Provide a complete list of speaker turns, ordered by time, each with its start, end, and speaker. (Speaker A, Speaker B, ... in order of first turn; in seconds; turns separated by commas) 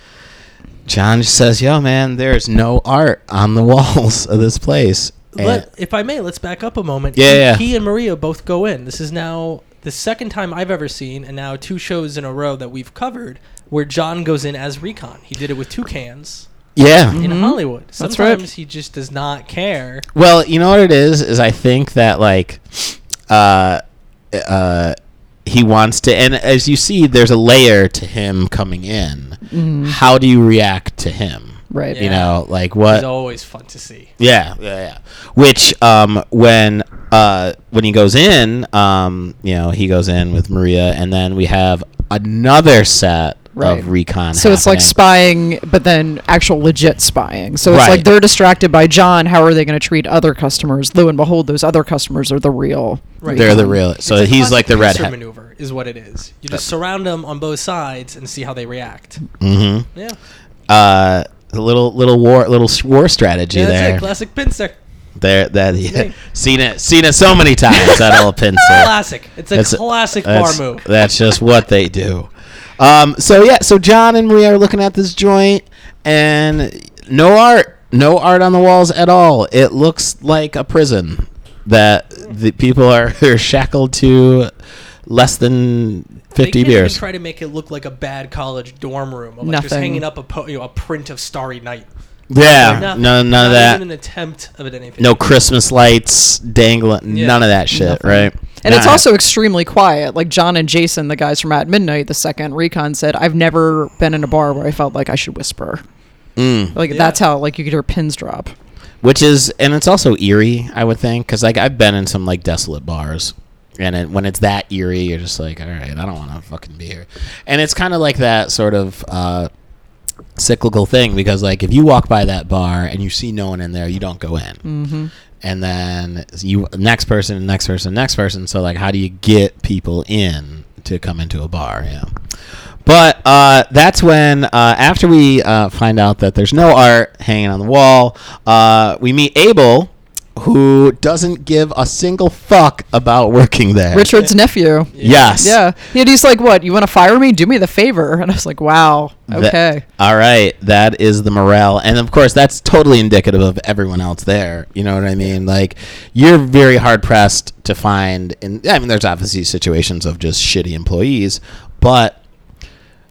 Speaker A: 0.9-5.7, Speaker B: 5.3-16.5, Speaker A: 7.2-7.6, Speaker A: 16.8-17.2, Speaker C: 17.1-18.4, Speaker B: 17.1-20.1, Speaker A: 20.1-23.8, Speaker A: 24.3-24.9, Speaker A: 25.5-33.0, Speaker C: 29.5-30.0, Speaker C: 31.7-32.0, Speaker B: 31.9-32.4, Speaker B: 32.9-34.1, Speaker A: 34.2-44.9, Speaker C: 43.5-53.8, Speaker A: 47.6-48.1, Speaker B: 53.2-59.2, Speaker A: 53.3-55.1, Speaker A: 59.4-59.9, Speaker A: 60.7-64.0, Speaker B: 63.5-64.8, Speaker A: 65.2-68.9, Speaker B: 65.8-66.1, Speaker B: 67.7-70.9, Speaker A: 69.5-84.5, Speaker A: 85.1-87.0, Speaker B: 86.4-95.2, Speaker C: 89.4-90.0, Speaker A: 92.3-93.8, Speaker A: 95.0-99.0, Speaker B: 97.1-97.4, Speaker C: 97.7-105.8, Speaker A: 106.4-106.8, Speaker C: 106.8-108.5, Speaker B: 106.9-107.2, Speaker A: 109.0-119.5, Speaker A: 120.4-124.6, Speaker C: 124.6-125.1, Speaker A: 125.4-132.1, Speaker A: 132.8-144.1, Speaker C: 143.9-149.8, Speaker B: 144.9-145.4, Speaker A: 145.0-145.6, Speaker A: 149.3-162.2